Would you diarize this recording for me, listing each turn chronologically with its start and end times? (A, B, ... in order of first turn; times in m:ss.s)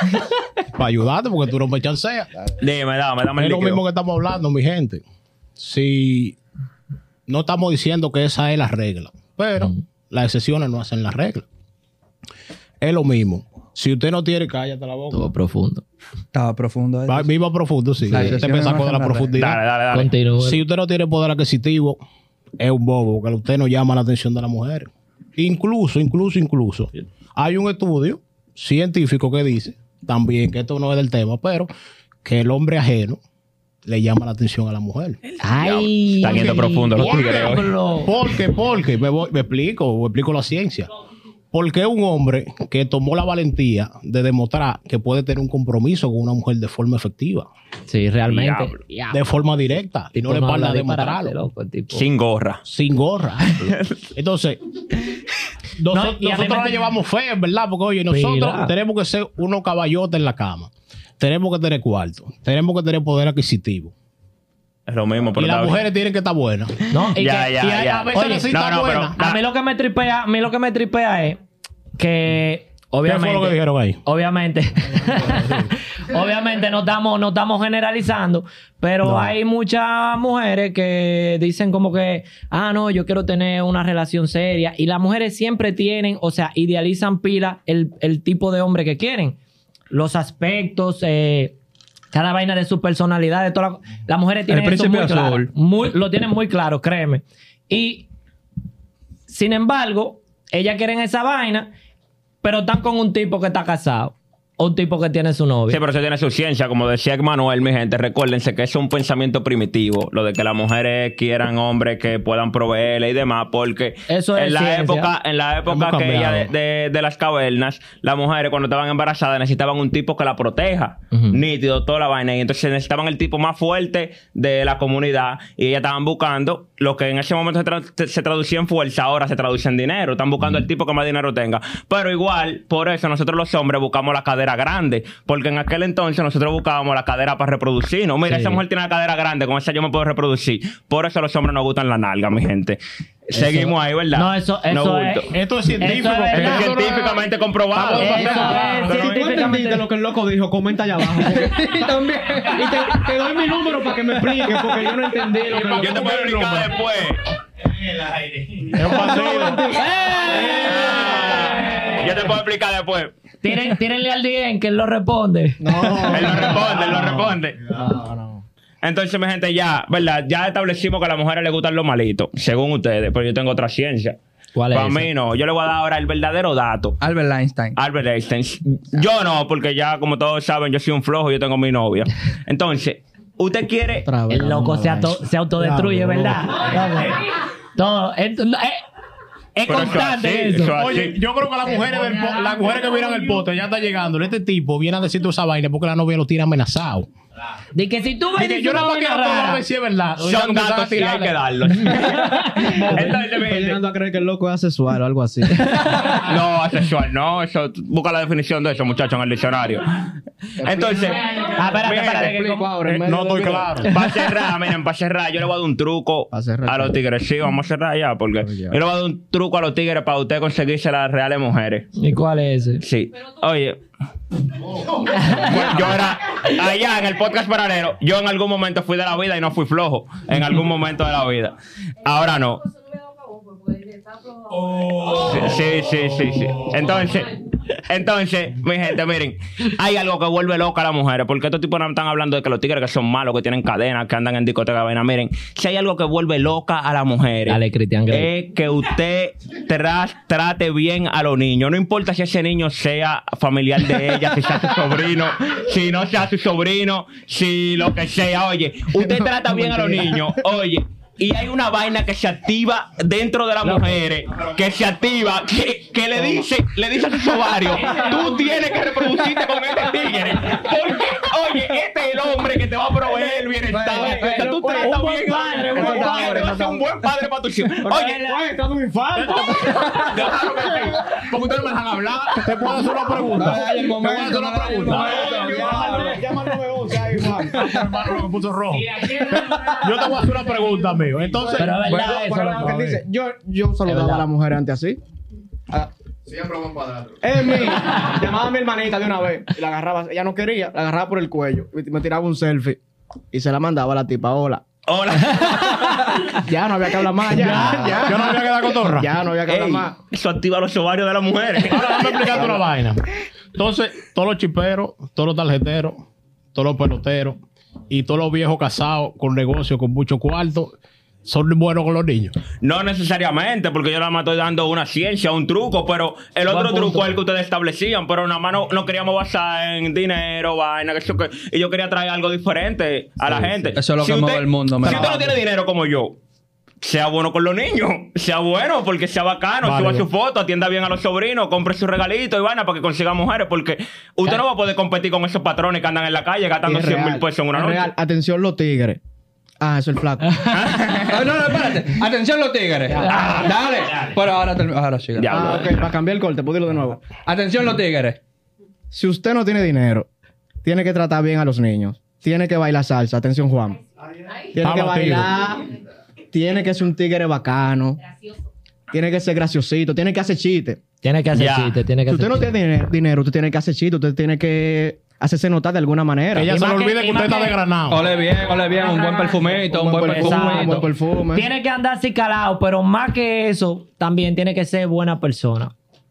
0:00.7-0:02.3 A
0:02.6-0:03.8 B
0:03.4-0:05.0 A
0:05.6-0:06.4 A
0:07.3-0:11.4 A
0:12.8-0:15.3 A
0:15.1-0:15.8 C
0:16.3-0:17.3 D
0:17.1-0:19.6 A
0:18.1-0:19.3 D
0:18.1-0:18.4 C
0:19.3-0:20.1 B
0:19.9-0:20.6 C
0:20.4-0:22.0 A
0:22.6-0:31.7 A
0:32.2-0:33.2 A
0:33.8-0:35.2 A
0:35.4-0:38.1 C
0:35.5-0:37.7 B
0:36.2-0:40.9 A
0:41.5-0:47.5 A
0:47.9-0:49.2 C
0:48.3-0:48.8 B
0:49.1-0:51.4 A
0:50.1-0:52.0 C
0:51.9-0:52.6 B
0:52.6-0:54.6 A
0:53.5-0:54.0 B
0:55.8-1:03.9 A
0:55.9-0:56.9 C
0:58.1-0:58.7 C
1:04.9-1:05.8 B
1:05.4-1:06.8 A
1:06.9-1:08.5 C
1:07.1-1:09.4 B
1:07.7-1:09.1 A
1:09.2-1:11.4 C
1:12.0-1:29.4 C
1:13.0-1:14.0 A
1:15.2-1:15.7 A
1:19.0-1:19.3 A
1:29.9-1:31.6 C
1:32.1-1:38.1 C
1:34.5-1:35.5 D
1:39.3-1:41.7 C
1:42.4-1:45.8 C
1:45.7-2:22.8 B
1:54.1-1:55.1 C
1:55.7-1:56.5 A
2:01.1-2:01.4 C
2:18.3-2:18.6 C
2:23.3-2:25.3 B
2:23.3-2:26.8 C
2:25.3-2:28.9 A
2:26.3-2:29.2 B
2:28.0-2:29.9 C
2:28.6-2:36.1 E
2:31.1-2:34.4 D
2:35.3-2:36.8 A
2:35.8-2:37.2 B
2:38.0-2:38.6 B
2:38.7-2:39.6 A
2:38.8-2:41.6 E
2:39.5-2:42.1 C
2:40.5-2:43.1 B
2:43.4-2:46.3 C
2:45.6-2:48.4 E
2:46.1-2:47.6 B
2:48.8-2:54.2 B
2:54.5-2:55.1 C
2:54.7-2:57.0 B
2:57.0-2:57.8 D
2:57.8-3:04.1 B
3:04.0-3:06.5 E
3:04.3-3:07.2 C
3:07.8-3:08.8 C
3:09.6-3:10.7 C
3:09.6-3:11.2 B
3:10.7-3:17.1 A
3:11.9-3:13.2 C
3:17.7-3:19.6 C
3:18.4-3:21.4 A
3:20.2-3:23.8 B
3:21.8-3:22.7 C
3:22.6-3:25.8 E
3:22.7-3:23.1 A
3:25.7-3:26.1 C
3:26.0-3:29.8 B
3:30.6-3:33.9 E
3:30.6-3:31.2 B
3:31.4-3:32.7 C
3:32.9-3:34.0 A
3:33.9-3:41.9 B
3:36.3-3:37.0 E
3:38.4-3:38.8 E
3:42.0-3:42.8 C
3:42.8-3:43.8 B
3:45.0-3:52.7 B
3:45.1-3:45.5 C
3:45.4-3:45.7 D
3:54.5-4:38.4 B
4:07.5-4:08.3 C
4:19.0-4:20.4 E
4:27.8-4:28.4 C
4:33.7-4:34.5 D
4:33.8-4:36.5 E
4:33.9-4:36.8 C
4:35.7-4:36.7 D
4:37.8-4:40.1 E
4:39.2-4:39.5 A
4:39.6-4:40.1 C
4:39.7-4:42.4 B
4:42.4-4:46.1 A
4:42.7-4:43.5 E
4:43.3-4:46.1 D
4:45.0-4:47.8 E
4:45.2-4:46.1 C
4:47.3-4:51.8 A
4:48.7-4:50.2 C
4:51.1-4:55.0 E
4:51.6-4:53.0 C
4:53.9-4:54.2 C
4:55.7-5:02.8 E
5:03.3-5:04.6 E
5:04.9-5:06.3 B
5:06.4-5:09.9 E
5:07.3-5:08.2 C
5:07.4-5:09.1 A
5:09.5-5:12.6 B
5:11.7-5:13.0 A
5:13.5-5:17.4 A
5:17.9-5:22.4 A
5:22.6-5:36.2 B
5:26.5-5:27.1 C
5:33.7-5:35.3 D
5:36.8-5:47.9 B
5:39.6-5:40.1 A
5:46.6-5:49.0 E
5:49.6-5:50.8 E
5:50.5-5:51.1 B
5:51.0-5:55.4 D
5:52.9-5:53.5 C
5:55.2-5:55.8 B
5:55.3-5:57.0 E
5:57.2-5:58.2 D
5:58.9-6:00.1 E
6:00.6-6:03.8 E
6:04.5-6:05.7 E
6:04.6-6:05.3 A
6:06.3-6:08.0 E
6:08.9-6:10.8 E
6:11.0-6:12.4 C
6:11.3-6:11.8 B
6:12.1-6:16.5 E
6:16.3-6:18.1 A
6:16.5-6:17.6 C
6:17.9-6:20.8 D
6:18.8-6:25.7 C
6:19.7-6:21.5 E